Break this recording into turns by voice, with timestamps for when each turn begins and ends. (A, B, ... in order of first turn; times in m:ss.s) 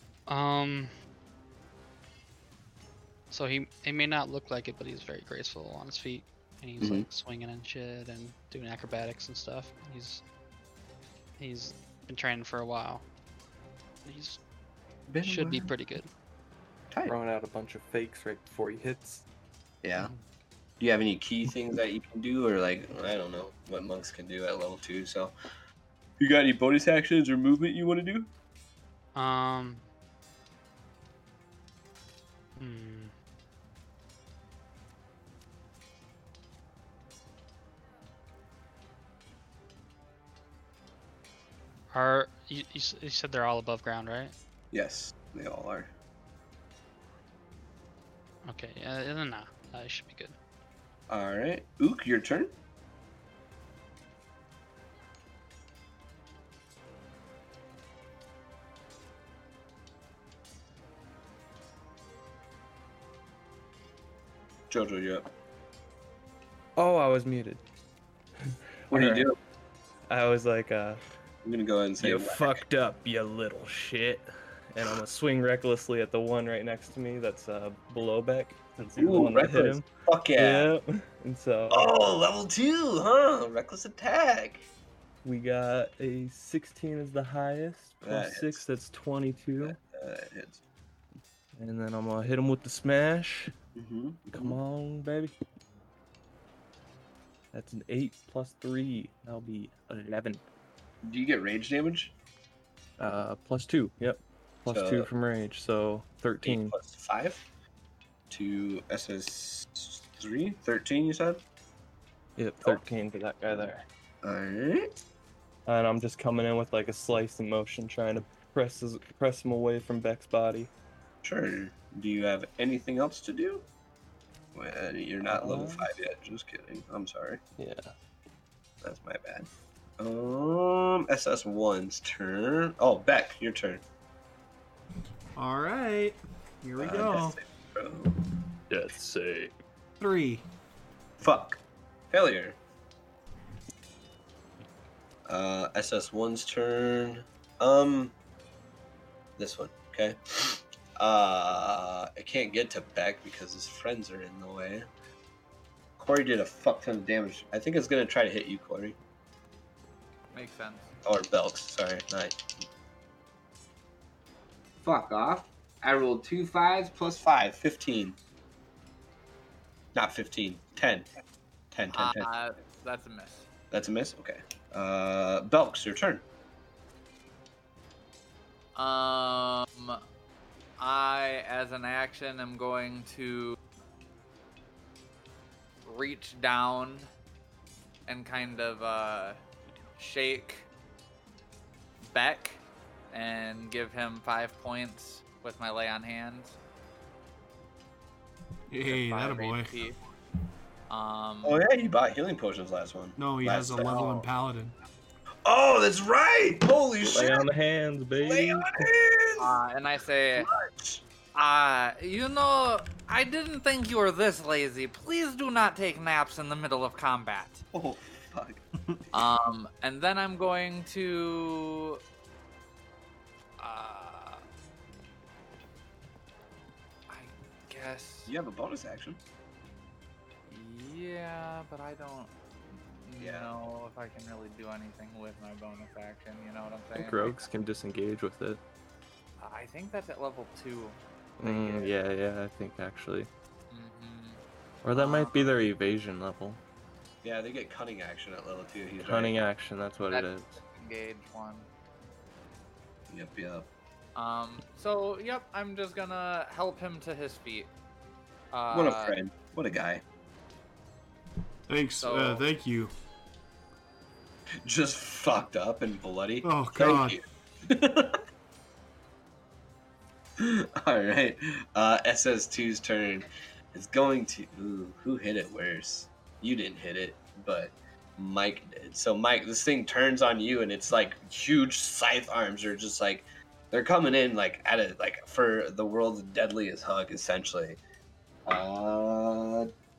0:00.3-0:00.9 A
0:03.3-0:10.2 A
0:06.8-0:07.1 B
0:11.4-0:13.0 A
0:14.0-0:14.4 A
0:15.1-0:15.7 B
0:15.2-0:16.1 A
0:17.0-0:19.2 C
0:19.8-0:20.1 B
0:20.8-0:25.3 B
0:26.2-0:28.3 B
0:29.1-0:29.8 A
0:32.6-0:33.1 A
0:41.9-0:44.3 A
0:44.7-0:45.9 B
0:48.4-0:50.4 A
0:51.1-0:52.5 B
1:04.7-1:05.3 B
1:06.8-1:07.6 C
1:08.5-1:09.3 C
1:08.9-1:09.4 B
1:10.1-1:11.0 C
1:11.4-1:12.6 B
1:12.0-1:21.9 C
1:19.0-1:20.7 B
1:21.7-1:24.7 B
1:25.2-1:29.8 C
1:28.0-1:28.6 B
1:29.6-1:30.6 B
1:31.6-1:33.5 C
1:33.7-1:34.6 B
1:34.3-1:35.3 C
1:37.5-1:40.4 C
1:41.0-1:42.1 B
1:43.0-1:46.8 C
1:44.7-1:45.1 B
1:46.4-1:47.4 B
1:48.3-1:51.4 B
1:52.4-1:53.8 C
1:54.2-1:54.9 B
1:55.7-2:00.7 C
2:01.2-2:03.7 B
2:04.5-2:07.4 B
2:05.2-2:05.9 C
2:07.6-2:07.9 C
2:08.8-2:13.8 B
2:15.4-2:17.4 D
2:16.8-2:18.1 B
2:18.7-2:19.5 C
2:20.0-2:20.4 D
2:21.2-2:22.6 B
2:25.3-2:28.1 B
2:29.4-2:34.9 B
2:36.0-2:39.0 B
2:40.3-2:40.9 E
2:41.0-2:42.5 B
2:44.8-2:48.2 B
2:49.9-2:51.1 B
2:51.7-2:52.3 B
2:51.9-2:53.5 E
2:53.7-2:56.2 B
2:58.8-3:00.0 E
3:00.8-3:03.6 E
3:05.8-3:07.1 E
3:08.1-3:09.4 E
3:10.0-3:10.7 E
3:12.1-3:16.6 E
3:18.7-3:19.8 D
3:18.8-3:20.0 E
3:20.9-3:21.6 E
3:21.4-3:24.2 B
3:23.2-3:24.7 D
3:23.8-3:24.1 E
3:25.4-3:27.4 B
3:27.0-3:28.9 C
3:28.2-3:29.6 B
3:29.4-3:30.5 E
3:30.4-3:31.0 B
3:31.3-3:37.6 E
3:37.7-3:38.6 B
3:39.1-3:42.0 E
3:43.6-3:44.4 E
3:47.1-3:48.3 E
3:48.3-3:49.2 B
3:50.5-3:57.5 E
3:53.2-3:53.5 B
3:56.9-3:58.6 C
3:59.4-4:01.9 E
4:01.4-4:03.3 C
4:03.7-4:04.4 E
4:04.8-4:06.6 C
4:04.9-4:05.6 E
4:07.2-4:09.5 B
4:09.0-4:10.5 C
4:10.1-4:11.7 E
4:13.1-4:13.7 B
4:14.1-4:17.7 E
4:18.5-4:19.2 E
4:18.7-4:20.0 B
4:21.7-4:22.9 D
4:22.0-4:22.4 E
4:24.6-4:28.2 B
4:26.4-4:27.2 D
4:30.4-4:47.8 B
4:48.4-4:49.7 B